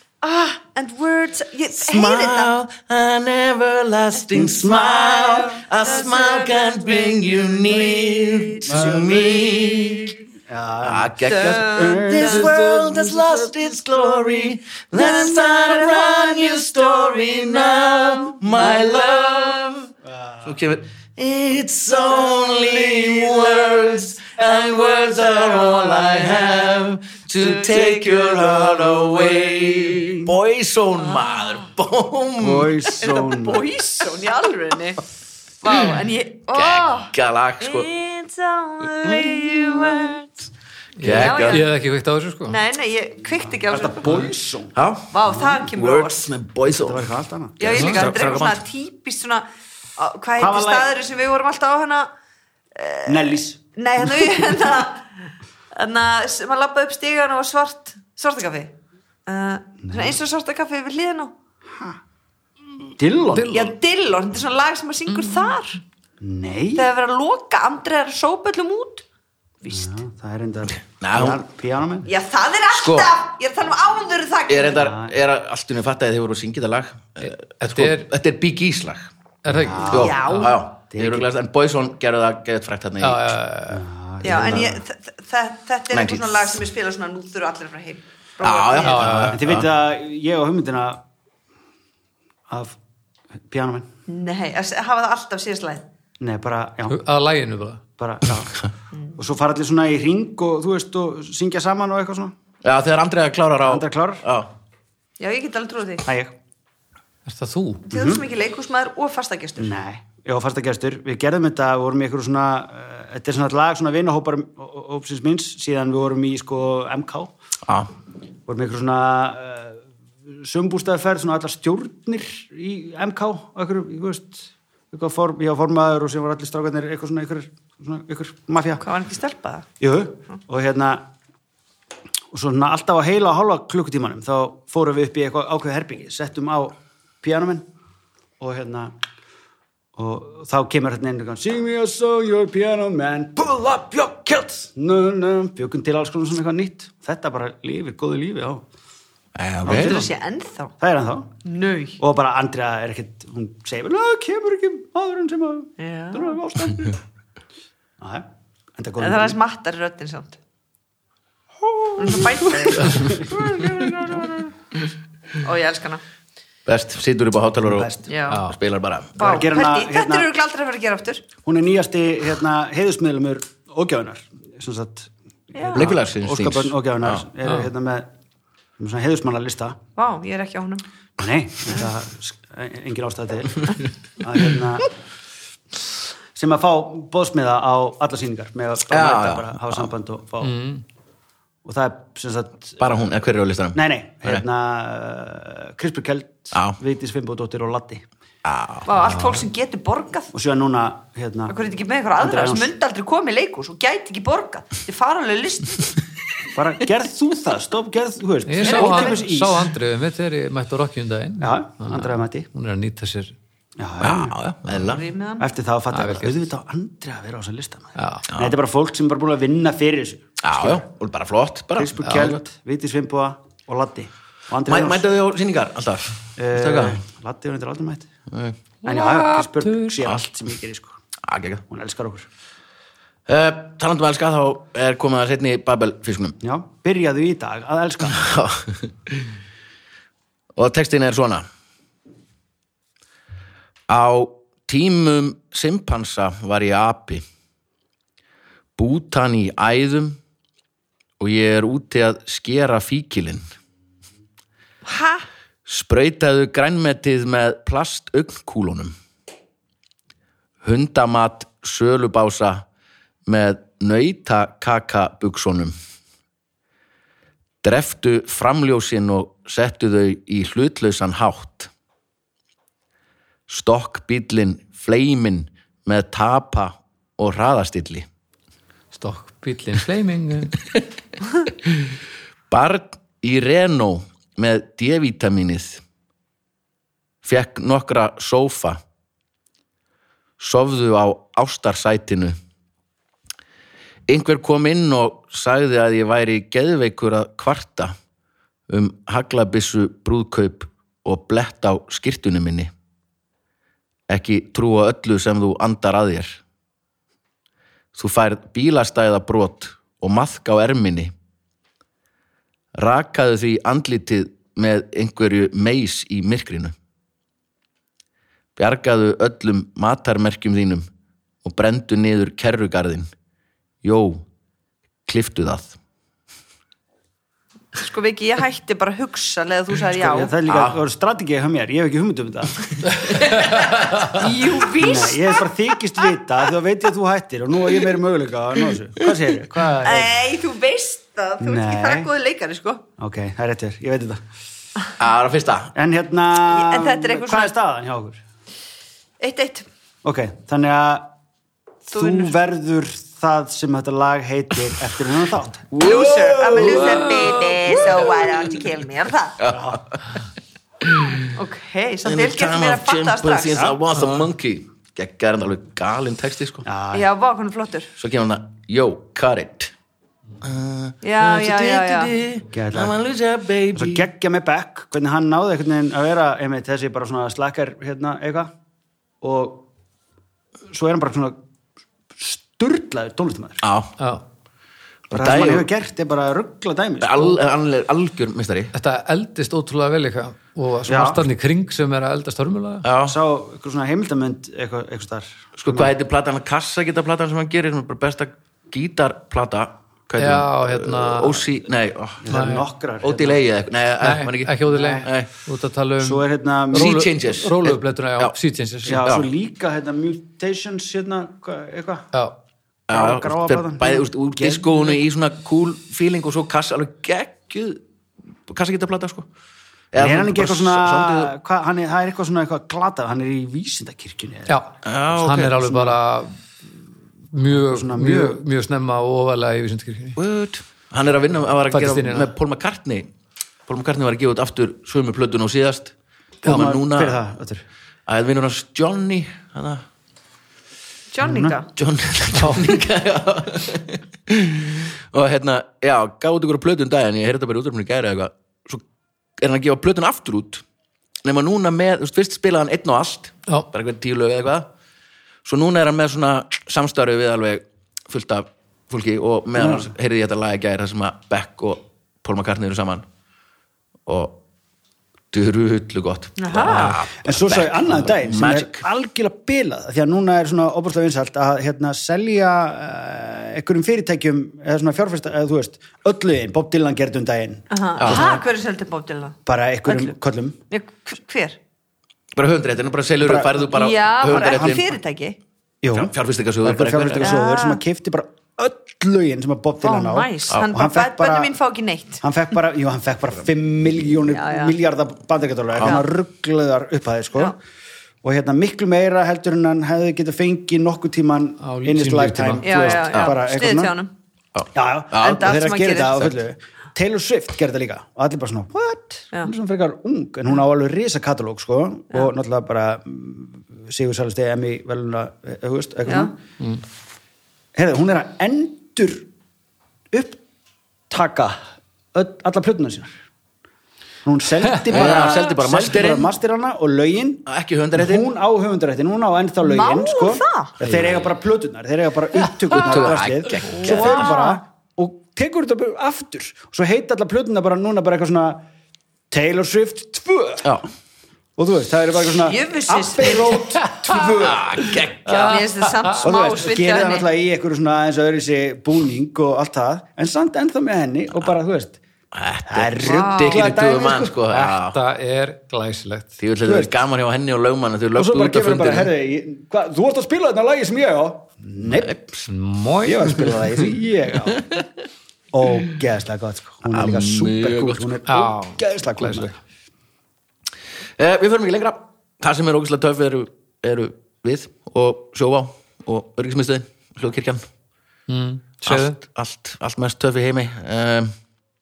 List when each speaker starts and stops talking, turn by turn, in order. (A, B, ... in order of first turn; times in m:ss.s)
0:00.2-0:02.5 A
0:01.8-0:10.2 B
0:04.3-0:05.6 C
0:05.7-0:08.9 A
0:08.7-0:09.6 C
0:10.4-0:13.5 C
0:10.8-0:19.9 B
0:11.2-0:12.5 A
0:14.9-0:18.6 A
0:20.0-0:20.5 C
0:20.4-0:32.9 B
0:25.4-0:26.3 A
0:27.4-0:28.6 A
0:31.1-0:31.6 A
0:32.4-0:33.7 C
0:33.0-0:35.0 A
0:35.6-0:40.4 A
0:36.5-0:37.9 B
0:41.0-0:42.6 D
0:41.0-0:41.7 B
0:41.1-0:41.6 A
0:42.5-0:44.3 A
0:43.7-0:45.6 C
0:44.7-0:45.1 B
0:45.1-0:46.3 A
0:45.7-0:47.1 B
0:46.8-0:48.5 C
0:47.6-0:52.1 A
0:47.8-0:48.6 B
0:50.4-0:50.9 C
0:52.7-0:55.1 A
0:53.0-0:54.3 C
0:55.7-0:58.7 A
0:59.3-1:01.3 A
0:59.8-1:00.2 C
1:02.9-1:03.6 C
1:03.3-1:03.6 D
1:03.5-1:05.8 A
1:06.2-1:06.9 C
1:06.8-1:09.0 A
1:09.6-1:12.1 C
1:11.0-1:11.4 B
1:12.0-1:14.9 A
1:12.7-1:13.1 B
1:14.5-1:19.1 B
1:14.7-1:15.1 C
1:17.2-1:18.1 D
1:19.4-1:20.4 D
1:19.5-1:20.2 C
1:19.8-1:20.5 A
1:19.9-1:23.4 B
1:20.9-1:21.3 C
1:23.0-1:23.8 D
1:23.7-1:24.8 C
1:24.2-1:29.2 A
1:24.2-1:24.6 B
1:25.9-1:26.6 B
1:28.4-1:29.7 B
1:28.8-1:29.4 D
1:29.3-1:31.0 C
1:32.5-1:32.8 C
1:33.5-1:33.9 C
1:34.1-1:35.8 A
1:36.2-1:37.0 C
1:36.9-1:37.8 D
1:38.0-1:38.6 C
1:39.2-1:42.3 C
1:42.6-1:44.5 B
1:43.6-1:44.2 C
1:45.2-1:46.0 A
1:46.0-1:46.3 C
1:47.2-1:47.8 D
1:47.9-1:49.8 A
1:47.9-1:48.2 C
1:49.6-1:57.3 C
1:58.5-2:08.8 C
2:08.8-2:09.7 A
2:09.8-2:11.1 C
2:12.3-2:17.7 C
2:18.4-2:18.9 C
2:20.0-2:28.6 C
2:29.4-2:30.0 B
2:29.6-2:30.1 C
2:29.6-2:30.7 A
2:30.8-2:31.3 C
2:31.4-2:32.0 A
2:32.0-2:37.0 C
2:35.8-2:36.4 A
2:38.0-2:39.4 C
2:39.0-2:40.4 A
2:42.0-2:44.3 A
2:42.0-2:44.4 C
2:45.4-2:46.0 A
2:46.6-2:49.2 B
2:47.6-2:48.1 C
2:48.1-2:48.5 A
2:48.3-2:48.6 D
2:49.2-2:51.2 A
2:49.2-2:50.3 C
2:51.4-2:58.1 C
2:55.5-2:55.9 A
2:55.7-2:57.2 B
2:58.8-2:59.8 C
3:00.0-3:00.8 A
3:01.2-3:04.9 C
3:06.3-3:10.6 C
3:08.9-3:09.8 B
3:10.4-3:10.8 D
3:11.6-3:12.8 C
3:12.8-3:14.4 B
3:13.7-3:18.1 C
3:16.5-3:16.8 B
3:18.4-3:18.9 B
3:18.8-3:20.3 A
3:20.3-3:21.6 C
3:21.5-3:26.0 A
3:22.2-3:22.7 C
3:26.5-3:29.7 C
3:28.5-3:33.3 D
3:28.6-3:29.2 A
3:31.4-3:32.5 C
3:33.8-3:34.4 C
3:34.0-3:35.1 B
3:34.7-3:35.4 A
3:35.4-3:40.8 C
3:35.9-3:36.4 D
3:38.0-3:38.2 D
3:40.4-3:42.4 B
3:41.7-3:45.1 C
3:42.0-3:42.3 D
3:44.6-3:47.0 B
3:46.4-3:48.1 C
3:48.3-3:48.6 B
3:48.8-3:51.0 C
3:49.0-3:49.5 D
3:49.9-3:50.2 B
3:51.2-3:51.6 B
3:51.7-3:52.3 C
3:53.3-3:56.4 B
3:56.4-3:58.3 C
3:58.1-3:59.2 B
4:00.6-4:01.4 B
4:03.9-4:07.2 B
4:08.8-4:10.2 B
4:11.2-4:13.4 B
4:14.8-4:15.2 A
4:15.6-4:18.9 B
4:20.6-4:22.6 B
4:23.2-4:25.7 B
4:27.6-4:31.7 B
4:33.5-4:38.0 B
4:38.9-4:40.6 D
4:42.5-4:45.8 B
4:47.2-4:48.8 B
4:50.4-4:52.4 B
4:54.1-4:57.9 B
4:58.7-5:02.7 B
5:04.1-5:06.4 B
5:07.9-5:11.1 B
5:12.8-5:16.7 B
5:18.6-5:20.8 B
5:21.4-5:23.1 B
5:23.8-5:24.2 B
5:25.1-5:25.7 B
5:27.8-5:30.3 A
5:30.0-5:32.6 C
5:30.5-5:30.8 B
5:34.0-5:36.1 A
5:34.8-5:40.2 C
5:39.8-5:42.8 A
5:41.4-5:42.1 C
5:43.0-5:44.2 C
5:45.0-5:45.7 B
5:45.7-5:48.2 C
5:46.4-5:47.5 A
5:49.2-5:49.7 A
5:50.0-5:51.1 C
5:51.9-5:52.4 A
5:51.9-5:56.0 C
5:55.8-5:59.4 A
5:55.8-5:58.6 B
5:56.5-5:57.1 C
5:59.4-6:00.0 B
5:59.5-5:59.8 C
6:00.8-6:01.2 B
6:01.3-6:03.8 A
6:02.0-6:06.6 B
6:06.6-6:07.1 C
6:06.9-6:07.9 A
6:08.0-6:09.7 B
6:10.4-6:14.0 B
6:11.0-6:12.1 A
6:12.5-6:13.0 C
6:13.7-6:18.5 C
6:19.2-6:19.7 C
6:20.7-6:21.4 C
6:22.1-6:23.6 C
6:23.6-6:23.9 B
6:24.0-6:24.2 D
6:25.1-6:25.7 B
6:25.1-6:27.4 C
6:27.0-6:28.7 B
6:28.7-6:32.9 D
6:30.8-6:31.3 C
6:32.8-6:33.2 B
6:33.0-6:35.9 C
6:35.6-6:42.3 B
6:40.2-6:41.4 D
6:42.2-6:43.4 C
6:42.3-6:42.6 D
6:43.0-6:45.3 B
6:44.0-6:49.0 D
6:44.7-6:45.1 C
6:46.0-6:47.0 C
6:46.7-6:48.4 B
6:48.8-6:52.1 C
6:48.9-6:49.3 B
6:52.9-6:57.8 B
6:52.9-6:55.0 C
6:58.5-6:59.2 B
6:59.9-7:01.3 B
7:00.0-7:04.5 C
7:04.5-7:06.4 D
7:04.8-7:05.8 B
7:05.7-7:06.0 C
7:07.3-7:10.2 D
7:07.4-7:08.4 C
7:10.2-7:13.1 B
7:11.7-7:12.3 D
7:13.7-7:15.9 B
7:16.4-7:17.6 C
7:16.4-7:16.7 D
7:16.4-7:17.2 B
7:18.1-7:19.8 B
7:21.1-7:21.7 A
7:21.2-7:21.6 C
7:21.8-7:28.8 B
7:22.4-7:22.7 D
7:29.4-7:30.6 B
7:31.2-7:34.7 B
7:35.4-7:43.0 B
7:39.6-7:39.9 C
7:44.0-7:44.4 B
7:45.3-7:48.8 B
7:46.4-7:47.0 A
7:46.6-7:58.4 C
7:57.7-8:00.1 A
7:58.0-7:58.3 B
7:59.4-8:00.6 C
8:00.7-8:01.6 A
8:02.3-8:04.9 B
8:03.2-8:03.7 C
8:03.6-8:05.4 A
8:04.3-8:04.9 C
8:05.8-8:11.5 C
8:05.9-8:07.4 B
8:07.2-8:07.8 A
8:09.8-8:12.2 A
8:12.2-8:17.6 C
8:14.3-8:14.7 A
8:18.2-8:24.0 C
8:21.6-8:23.0 D
8:22.6-8:24.1 A
8:23.1-8:23.4 B
8:24.5-8:25.6 B
8:24.7-8:36.4 C
8:25.2-8:26.3 A
8:37.7-8:39.3 C
8:40.1-8:40.4 C
8:41.1-8:41.6 C
8:42.1-8:43.1 C
8:44.2-8:58.6 C
8:44.9-8:46.3 B
8:47.5-8:48.3 B
8:49.6-8:50.7 A
8:50.8-8:51.3 B
8:52.7-8:54.3 B
8:53.7-8:54.6 A
8:59.3-9:00.7 C
9:00.6-9:00.9 B
9:01.6-9:04.7 C
9:02.4-9:03.6 A
9:04.2-9:05.6 B
9:05.2-9:06.2 D
9:05.5-9:07.3 A
9:06.2-9:12.0 C
9:12.3-9:15.0 B
9:12.7-9:14.4 C
9:13.0-9:13.6 A
9:14.5-9:16.4 D
9:16.4-9:19.1 B
9:16.6-9:16.9 C
9:18.2-9:22.2 C
9:21.8-9:22.5 B
9:22.5-9:23.7 D
9:23.0-9:24.7 C
9:24.5-9:24.8 B
9:25.5-9:29.6 C
9:26.9-9:28.1 B
9:28.2-9:29.5 D
9:31.2-9:37.6 B
9:38.3-9:39.2 D
9:38.8-9:41.3 B